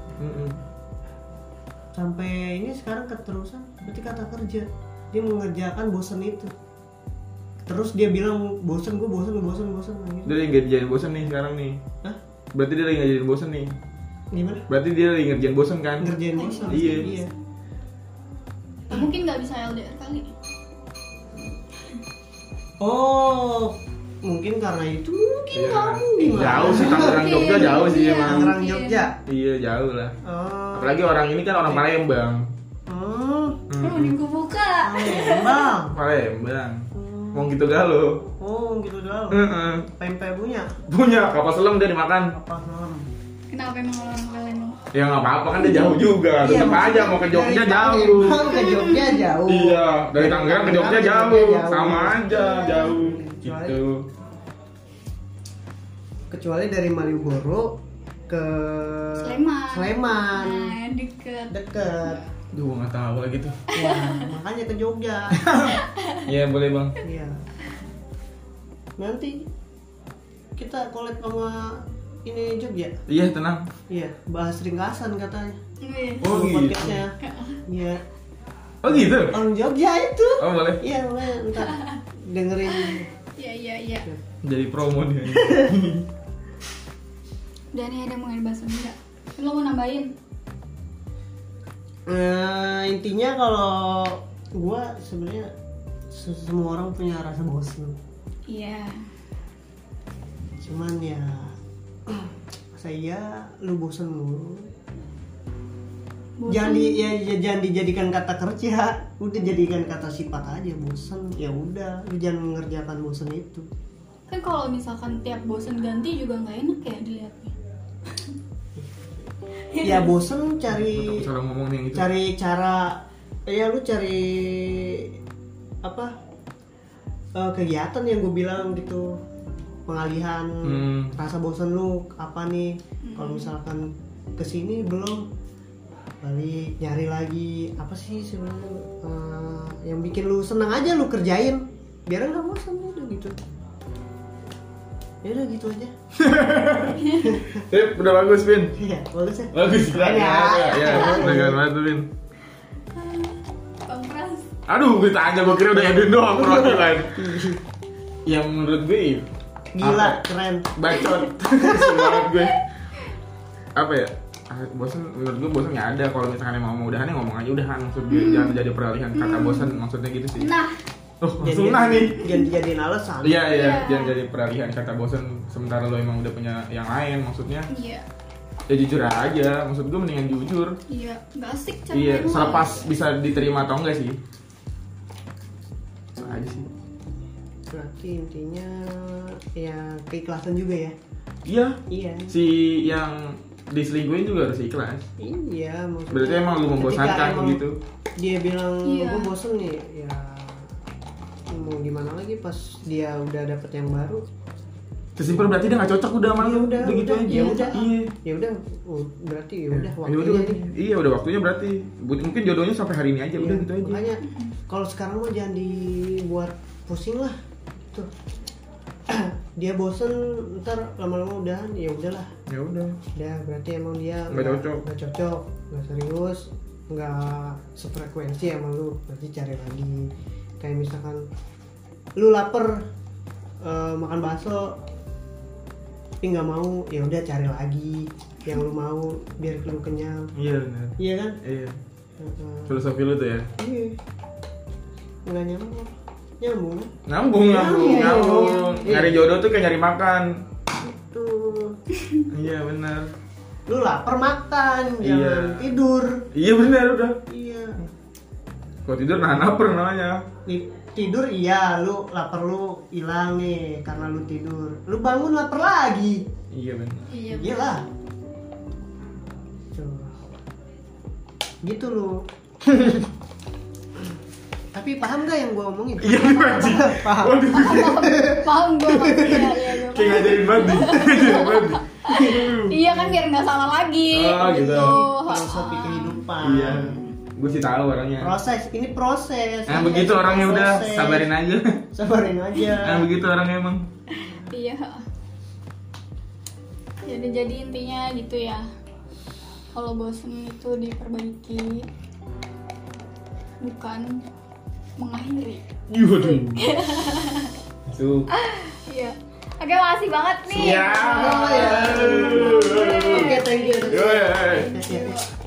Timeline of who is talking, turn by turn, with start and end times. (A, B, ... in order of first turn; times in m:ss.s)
0:00.2-0:00.6 A
0:02.0-0:06.5 B
0:07.7-0:10.4 B
0:10.3-0:11.8 A
0:12.5-0:13.7 A
0:14.3-0:14.6 B
0:14.7-0:16.2 A
0:16.0-0:17.3 B
0:16.4-0:17.2 C
0:16.7-0:17.0 A
0:18.9-0:20.3 C
0:22.8-0:29.2 B
0:25.5-0:28.5 A
0:26.4-0:29.1 C
0:29.2-0:30.2 A
0:30.2-0:31.8 B
0:30.8-0:32.5 A
0:32.9-0:33.6 B
0:33.7-0:34.2 A
0:33.8-0:35.7 C
0:34.8-0:36.0 B
0:35.9-0:38.3 A
0:36.9-0:37.5 B
0:38.4-0:40.8 B
0:39.3-0:39.9 A
0:40.9-0:42.4 A
0:42.3-0:43.1 B
0:43.5-0:44.8 C
0:44.9-0:48.6 A
0:46.4-0:53.8 B
0:48.5-0:49.3 C
0:49.5-0:54.0 A
0:52.3-0:53.0 C
0:56.3-0:57.8 B
0:58.3-1:00.8 B
0:59.2-1:02.2 C
1:01.5-1:02.2 B
1:02.5-1:03.6 A
1:03.7-1:05.5 B
1:03.8-1:04.3 C
1:05.4-1:07.0 A
1:05.6-1:06.3 C
1:07.0-1:07.4 B
1:09.0-1:09.5 B
1:10.6-1:13.0 B
1:13.1-1:13.6 A
1:13.9-1:15.6 B
1:15.8-1:16.2 C
1:16.2-1:17.0 A
1:16.2-1:17.2 B
1:17.2-1:17.6 C
1:17.7-1:18.0 B
1:18.8-1:19.4 A
1:18.9-1:23.1 B
1:20.4-1:20.8 A
1:21.6-1:22.0 C
1:22.7-1:24.1 C
1:24.4-1:26.1 A
1:25.3-1:25.7 B
1:27.7-1:30.1 C
1:32.1-1:35.5 B
1:36.1-1:38.0 B
1:38.5-1:39.1 C
1:40.6-1:44.7 B
1:46.4-1:47.0 C
1:46.5-1:53.7 B
1:54.3-1:57.6 C
1:58.8-1:59.1 B
1:59.7-2:00.1 C
1:59.8-2:01.3 B
2:00.7-2:02.1 A
2:01.9-2:05.2 B
2:05.8-2:06.1 B
2:07.4-2:09.2 B
2:09.9-2:15.3 B
2:10.6-2:11.2 A
2:13.0-2:13.5 C
2:16.2-2:23.4 B
2:25.2-2:25.9 B
2:26.2-2:28.8 A
2:27.0-2:27.4 C
2:27.2-2:27.6 B
2:28.8-2:31.6 B
2:29.5-2:32.1 A
2:30.9-2:31.2 C
2:33.0-2:34.5 C
2:34.7-2:37.2 A
2:35.8-2:37.6 B
2:38.3-2:39.3 A
2:39.7-2:40.7 B
2:39.8-2:40.2 A
2:40.7-2:42.6 A
2:41.6-2:42.1 B
2:42.3-2:42.6 C
2:43.8-2:50.5 A
2:48.1-2:48.6 C
2:49.2-2:49.8 C
2:50.4-2:50.8 C
2:51.2-2:52.3 A
2:51.4-2:53.5 B
2:53.2-2:57.7 A
2:53.5-2:54.2 C
2:57.7-2:58.0 C
2:58.7-3:00.8 A
3:00.9-3:03.0 C
3:01.9-3:04.2 A
3:06.2-3:06.7 A
3:07.7-3:11.0 B
3:11.5-3:15.1 A
3:11.9-3:12.3 B
3:15.2-3:17.6 B
3:16.1-3:17.8 A
3:18.2-3:20.7 B
3:18.8-3:19.3 C
3:21.5-3:24.2 B
3:25.2-3:28.1 A
3:26.4-3:30.6 B
3:27.3-3:27.8 C
3:29.8-3:34.1 A
3:33.4-3:37.4 B
3:34.2-3:34.5 C
3:39.1-3:42.3 B
3:42.5-3:43.0 A
3:43.1-3:51.3 B
3:44.3-3:44.8 A
3:52.2-3:52.9 B
3:53.6-3:54.8 B
3:56.2-4:00.3 B
4:00.4-4:01.8 A
4:01.0-4:01.4 B
4:02.2-4:02.8 B
4:02.7-4:03.5 A
4:03.6-4:04.0 B
4:05.3-4:06.9 B
4:07.1-4:10.4 A
4:07.5-4:09.2 B
4:07.7-4:08.9 C
4:10.8-4:11.8 B
4:12.3-4:13.1 A
4:13.7-4:16.2 B
4:15.0-4:15.8 A
4:16.3-4:17.2 A
4:17.3-4:17.9 B
4:18.9-4:20.2 A
4:20.5-4:26.3 B
4:26.5-4:27.1 A
4:27.1-4:27.7 C
4:27.2-4:27.8 B
4:29.7-4:30.2 B
4:31.6-4:33.1 B
4:34.7-4:39.8 B
4:36.0-4:38.1 A
4:37.5-4:47.1 C
4:39.8-4:42.7 A
4:42.1-4:43.2 B
4:44.1-4:45.1 A
4:44.4-4:47.0 B
4:46.4-4:48.3 A
4:48.2-4:51.3 B
4:49.7-4:51.8 A
4:49.7-4:50.2 C
4:51.9-4:53.1 B
4:52.8-4:53.8 A
4:54.2-4:55.0 C
4:57.1-4:58.7 C
4:59.7-5:01.9 C
5:03.6-5:04.2 C
5:05.0-5:05.6 C
5:05.9-5:06.7 A
5:06.2-5:07.6 C
5:07.9-5:08.3 A
5:08.3-5:15.3 C
5:10.5-5:14.7 A
5:10.5-5:15.2 B